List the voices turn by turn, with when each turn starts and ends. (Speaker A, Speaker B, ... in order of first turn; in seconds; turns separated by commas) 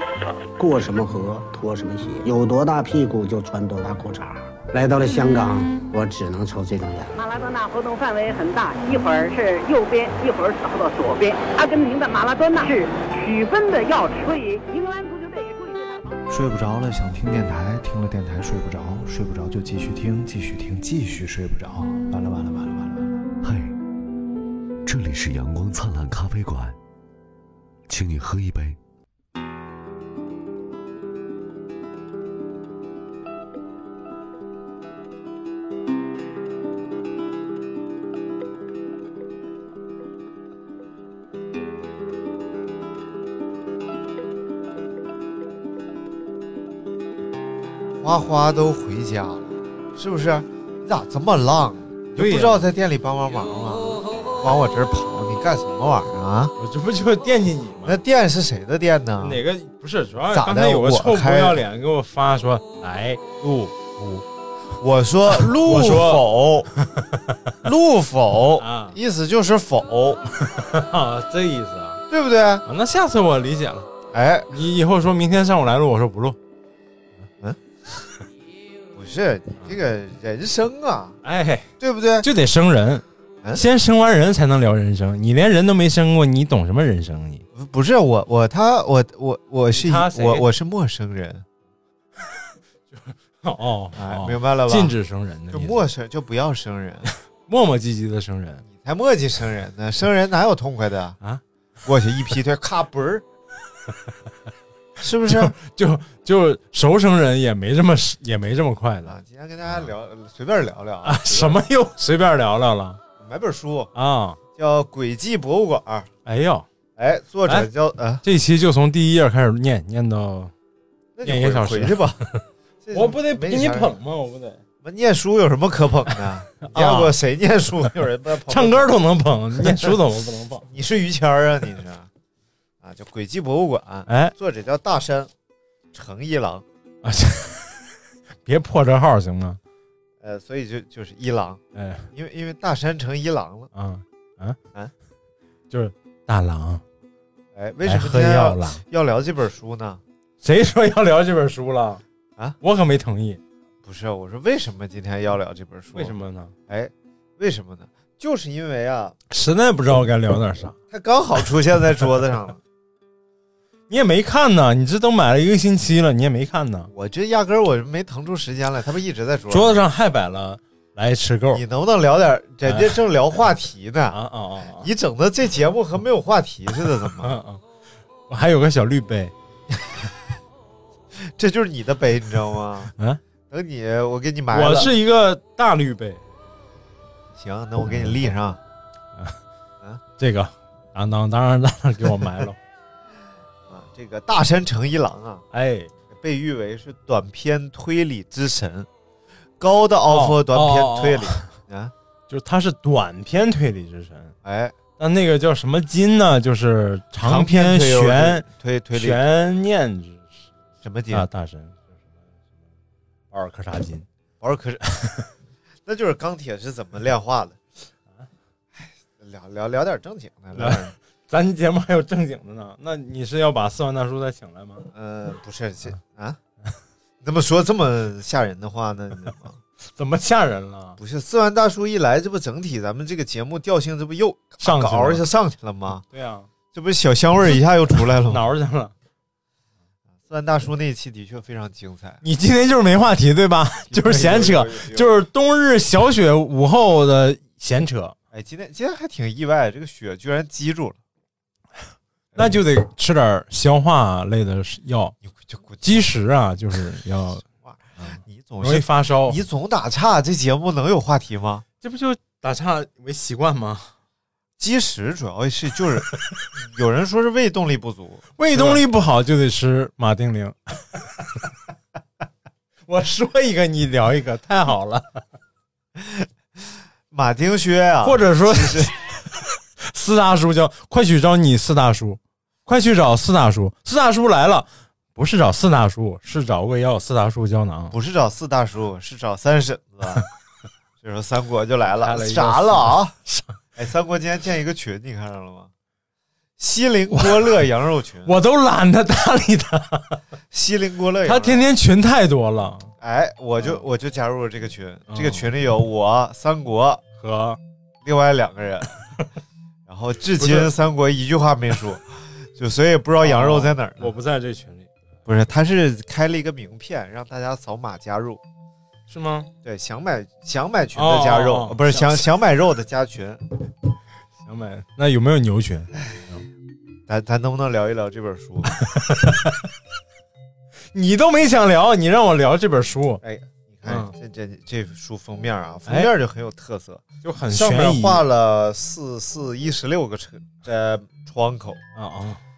Speaker A: 0.6-7.2, Speaker B: 7.1-16.2, Speaker C: 16.3-23.2, Speaker D: 23.4-23.8, Speaker D: 24.9-26.8, Speaker D: 27.9-28.8, Speaker E: 48.0-56.5, Speaker F: 52.1-52.7, Speaker F: 56.6-58.0, Speaker E: 57.8-59.4, Speaker F: 59.2-64.1, Speaker E: 60.3-61.6, Speaker E: 64.8-66.7, Speaker F: 65.3-66.3, Speaker F: 66.8-67.1, Speaker E: 67.6-70.2, Speaker F: 68.6-69.0, Speaker F: 70.5-72.0, Speaker E: 72.1-72.6, Speaker F: 72.6-73.9, Speaker E: 74.1-74.5, Speaker F: 74.5-76.4, Speaker E: 78.9-81.2, Speaker F: 81.2-81.7, Speaker E: 81.8-82.3, Speaker F: 82.2-87.4, Speaker E: 87.5-91.4, Speaker F: 89.7-90.5, Speaker F: 92.9-95.8, Speaker E: 93.9-95.0, Speaker E: 95.5-97.1, Speaker F: 97.5-98.6, Speaker E: 98.6-101.2, Speaker E: 101.8-103.2, Speaker E: 105.0-105.5, Speaker F: 105.2-109.2, Speaker E: 109.0-111.6, Speaker F: 111.0-113.0, Speaker E: 113.2-113.9, Speaker F: 113.9-114.4, Speaker E: 114.5-116.1, Speaker F: 116.2-116.7, Speaker E: 117.0-118.2, Speaker F: 118.2-120.5, Speaker E: 121.2-122.2, Speaker F: 121.2-124.6, Speaker E: 122.8-123.9, Speaker E: 124.8-129.0, Speaker F: 126.6-127.2, Speaker F: 128.5-130.7, Speaker E: 129.6-129.9, Speaker E: 130.7-132.1, Speaker E: 132.8-135.3, Speaker F: 134.1-134.3, Speaker E: 135.9-136.6, Speaker F: 137.0-137.9, Speaker F: 138.4-139.6, Speaker E: 140.2-141.6, Speaker F: 141.7-142.1, Speaker E: 142.1-143.7, Speaker F: 143.7-144.6, Speaker F: 145.7-146.8, Speaker E: 147.5-150.0, Speaker F: 147.8-148.8, Speaker F: 150.4-152.0, Speaker F: 152.6-153.4, Speaker E: 153.8-156.1, Speaker F: 155.9-156.5, Speaker E: 156.7-159.2, Speaker F: 159.3-160.8, Speaker E: 160.9-162.6, Speaker F: 163.9-166.9, Speaker E: 166.9-169.8, Speaker F: 169.5-171.6, Speaker E: 171.5-174.2, Speaker F: 172.7-173.0, Speaker F: 174.1-174.9, Speaker E: 174.8-177.4, Speaker F: 177.2-177.6, Speaker F: 178.3-179.3, Speaker E: 179.7-180.0, Speaker E: 181.1-182.9, Speaker F: 182.9-183.2, Speaker E: 183.5-184.9, Speaker F: 184.5-186.2, Speaker E: 187.3-188.6, Speaker F: 187.8-188.3, Speaker F: 190.2-192.6, Speaker E: 193.7-195.4, Speaker F: 195.5-195.9, Speaker E: 196.1-198.9, Speaker E: 199.6-201.9, Speaker F: 200.1-201.5, Speaker F: 202.3-204.3, Speaker E: 204.4-204.7, Speaker F: 205.0-210.4, Speaker E: 207.2-209.2, Speaker E: 210.8-211.3, Speaker F: 211.1-211.9, Speaker F: 213.3-214.1, Speaker E: 214.4-214.8, Speaker F: 214.9-215.2, Speaker E: 215.8-217.6, Speaker E: 218.7-220.9, Speaker F: 220.5-224.9, Speaker E: 224.9-226.4, Speaker E: 227.2-229.6, Speaker F: 229.9-231.0, Speaker E: 231.0-236.0, Speaker F: 234.6-235.2, Speaker F: 236.1-236.5, Speaker E: 236.7-238.4, Speaker F: 238.3-238.9, Speaker E: 240.3-242.2, Speaker F: 242.2-248.1, Speaker E: 243.9-245.1, Speaker E: 248.3-251.0, Speaker E: 252.3-252.6, Speaker F: 252.4-255.1, Speaker E: 255.2-256.1, Speaker F: 255.8-257.4, Speaker E: 257.4-261.6, Speaker F: 258.0-259.4, Speaker F: 261.8-263.9, Speaker E: 264.6-268.8, Speaker F: 268.4-271.0, Speaker F: 272.9-275.2, Speaker E: 276.0-276.2, Speaker E: 277.1-278.9, Speaker F: 278.0-279.2, Speaker F: 279.8-287.9, Speaker E: 287.9-290.2, Speaker E: 291.0-293.1, Speaker F: 291.9-293.6, Speaker E: 293.8-295.7, Speaker E: 296.6-298.3, Speaker F: 297.1-297.5, Speaker F: 298.2-300.2, Speaker E: 300.5-301.7, Speaker F: 301.2-302.9, Speaker E: 303.0-307.0, Speaker F: 305.1-305.5, Speaker F: 307.2-307.6, Speaker E: 308.0-309.0, Speaker E: 309.9-314.1, Speaker F: 310.4-310.7, Speaker F: 313.2-314.9, Speaker E: 315.2-318.4, Speaker F: 319.1-319.5, Speaker E: 319.6-323.4, Speaker F: 320.9-322.2, Speaker F: 324.4-326.4, Speaker E: 327.1-328.7, Speaker F: 328.8-329.6, Speaker F: 330.9-333.2, Speaker E: 333.2-341.8, Speaker F: 333.9-334.1, Speaker F: 335.9-336.1, Speaker F: 337.2-338.2, Speaker F: 341.9-342.4